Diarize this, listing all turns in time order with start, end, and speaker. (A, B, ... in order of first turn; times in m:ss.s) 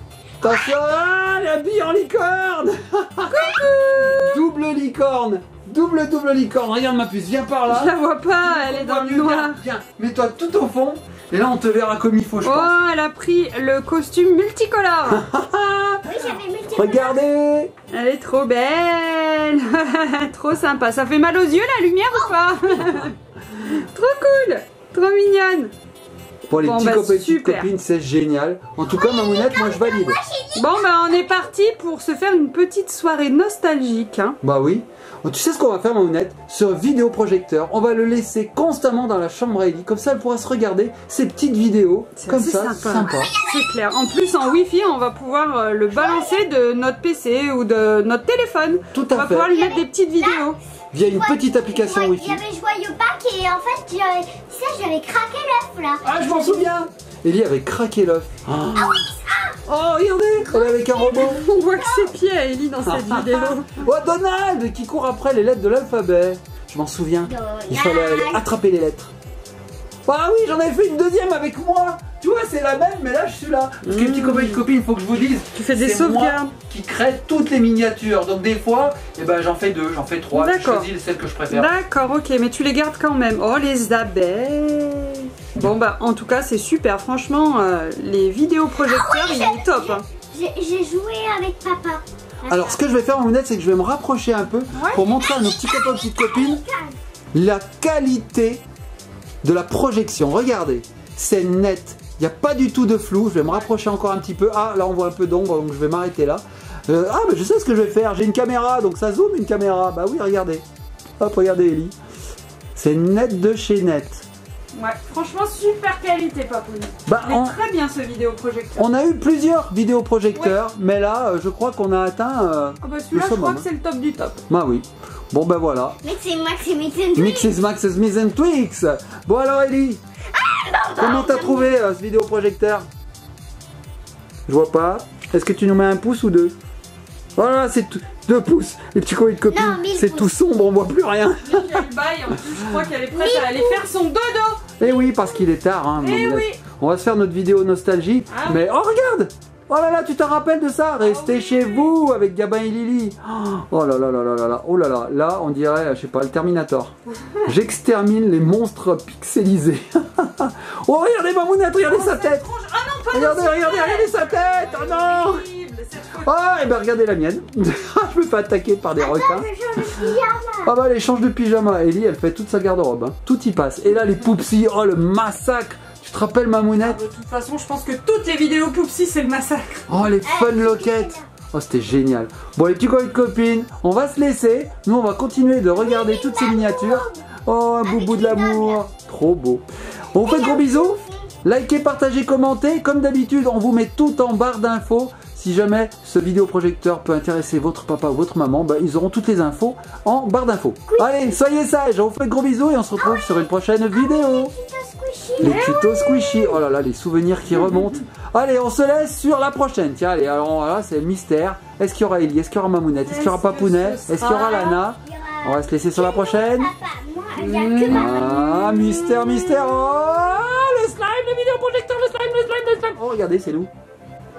0:00.4-0:12.7 A
0:03.3-0:04.4 B
0:07.7-0:09.6 B
0:12.4-0:15.2 B
0:15.1-0:16.1 A
0:16.0-0:17.2 C
0:16.8-0:17.7 A
0:17.9-0:25.7 B
0:22.1-0:22.9 C
0:26.5-0:30.2 A
0:26.6-0:27.7 B
0:28.8-0:31.5 C
0:30.6-0:34.4 B
0:34.4-0:43.3 A
0:42.2-0:50.6 B
0:43.2-0:43.8 C
0:45.9-0:46.5 C
0:48.9-0:49.5 A
0:49.5-0:50.5 C
0:50.9-0:52.4 A
0:51.0-0:56.5 C
0:56.0-0:59.1 A
0:58.7-0:59.6 C
0:59.6-1:01.4 A
1:00.4-1:02.1 C
1:01.1-1:03.8 B
1:02.8-1:09.1 A
1:07.3-1:08.5 C
1:10.1-1:21.7 A
1:13.8-1:14.6 B
1:15.5-1:16.5 B
1:20.3-1:20.9 B
1:21.5-1:30.0 B
1:28.8-1:32.8 C
1:32.5-1:36.6 A
1:34.7-1:35.0 B
1:35.2-1:37.0 C
1:37.3-1:38.6 A
1:39.4-1:50.6 A
1:51.2-1:52.0 A
1:52.8-1:54.2 A
1:54.8-1:58.9 B
1:57.1-1:57.6 A
1:58.8-2:03.7 A
2:02.8-2:04.4 B
2:04.5-2:06.0 A
2:06.0-2:07.5 C
2:07.2-2:10.0 A
2:10.3-2:11.7 C
2:11.0-2:12.9 A
2:14.5-2:16.6 A
2:17.4-2:21.9 A
2:19.5-2:20.3 C
2:21.5-2:24.7 B
2:23.1-2:23.8 C
2:24.8-2:42.4 A
2:26.0-2:26.6 B
2:28.3-2:28.6 B
2:31.0-2:31.9 B
2:41.9-2:46.3 B
2:43.1-2:45.5 A
2:46.1-2:50.1 A
2:49.0-2:50.7 C
2:50.6-2:57.0 A
2:56.8-2:59.9 B
2:59.9-3:24.5 A
3:00.2-3:01.3 C
3:05.7-3:07.2 C
3:07.8-3:08.8 C
3:10.2-3:11.3 C
3:23.0-3:25.7 C
3:25.4-3:26.6 B
3:25.4-3:36.7 A
3:27.6-3:27.9 B
3:33.1-3:34.8 B
3:35.0-3:38.5 C
3:37.4-3:39.7 B
3:37.9-3:43.7 A